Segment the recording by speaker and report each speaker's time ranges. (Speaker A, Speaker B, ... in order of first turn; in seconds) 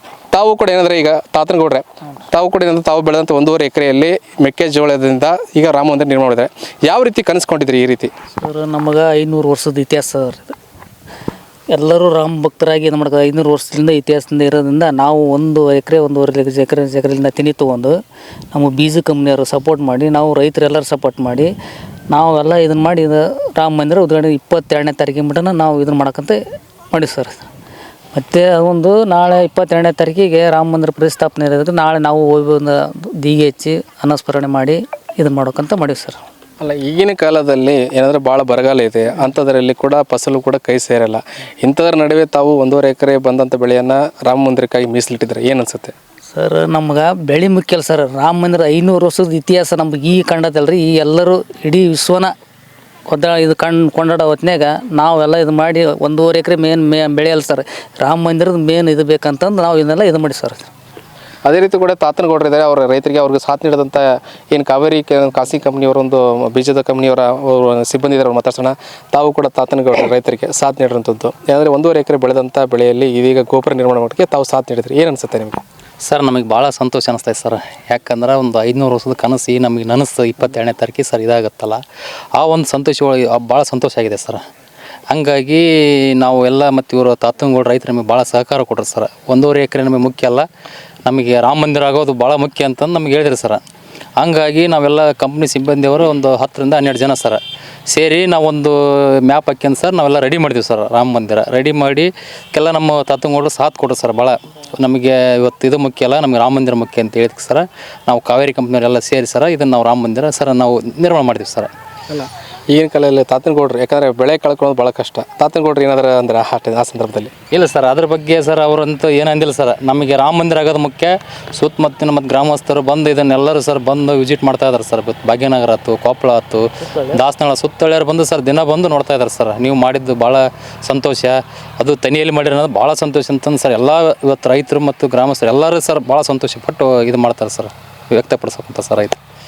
Speaker A: 0.3-8.1, 36.6-45.9, 61.4-75.6, 112.1-117.3
Speaker B: 8.4-10.5, 11.7-17.9, 18.5-21.5, 22.1-26.4, 26.9-27.4, 28.1-36.2, 46.3-52.3, 53.1-60.7
Speaker C: 76.0-81.8, 82.3-84.4, 85.1-90.5, 91.0-93.6, 94.2-111.7, 117.5-139.2